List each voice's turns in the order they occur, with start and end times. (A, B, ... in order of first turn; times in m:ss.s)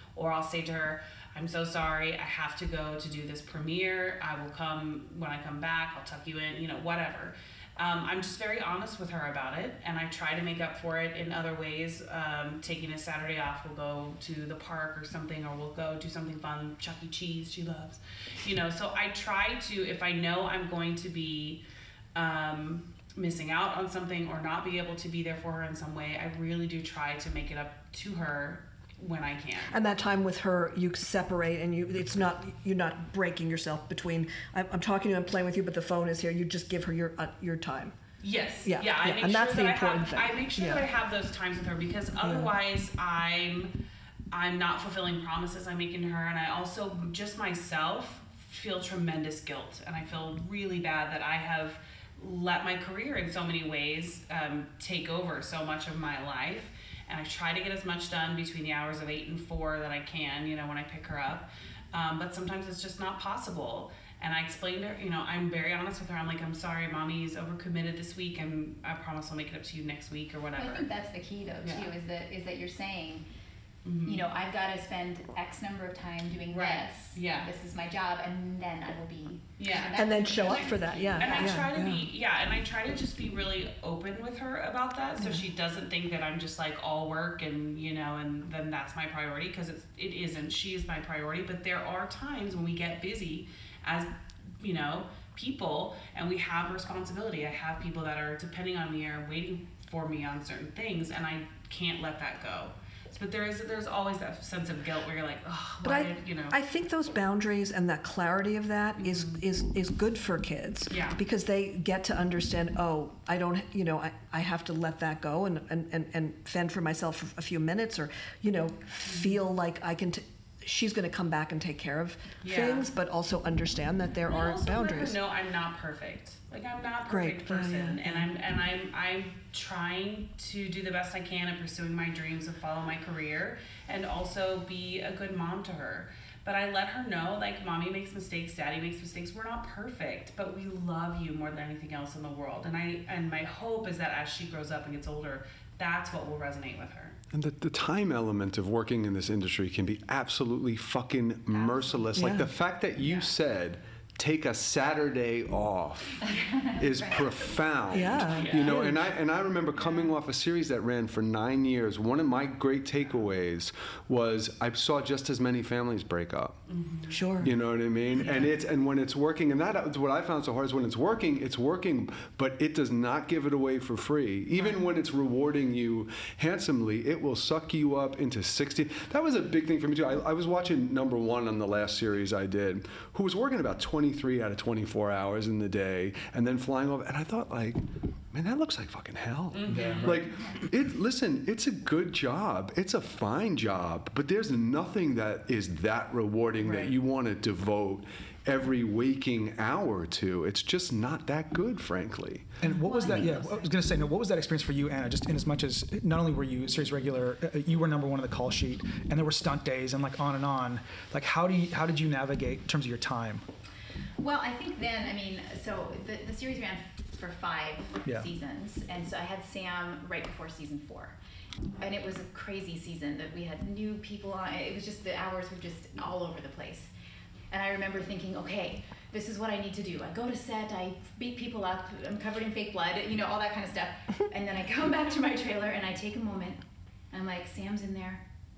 0:00.2-0:21.6 A
0:22.2-0:29.8 A
0:29.7-0:38.0 B
0:38.2-0:43.7 A
0:38.6-0:40.8 B
0:42.2-0:42.5 B
0:44.3-1:10.9 A
1:10.6-1:13.2 C
1:11.6-1:11.9 A
1:13.8-1:14.3 A
1:14.0-1:21.7 C
1:16.5-1:17.5 A
1:19.6-1:46.6 A
1:20.0-1:22.1 B
1:25.2-1:25.4 B
1:45.8-2:05.2 B
1:49.0-1:49.4 A
1:50.9-1:51.2 A
1:59.1-1:59.4 A
2:02.4-2:02.9 A
2:04.3-2:27.2 A
2:07.1-2:08.3 B
2:27.3-2:46.6 D
2:31.5-2:32.4 C
2:32.2-2:32.5 B
2:36.2-2:37.6 C
2:37.9-2:39.0 B
2:38.2-2:38.8 A
2:46.7-2:47.2 A
2:47.1-2:47.5 B
2:47.4-3:22.6 D
2:48.2-2:48.5 A
3:09.5-3:10.5 A
3:09.7-3:10.2 E
3:22.6-3:33.5 E
3:22.6-3:23.8 C
3:34.2-3:41.2 C
3:41.8-3:46.9 C
3:47.5-3:58.3 C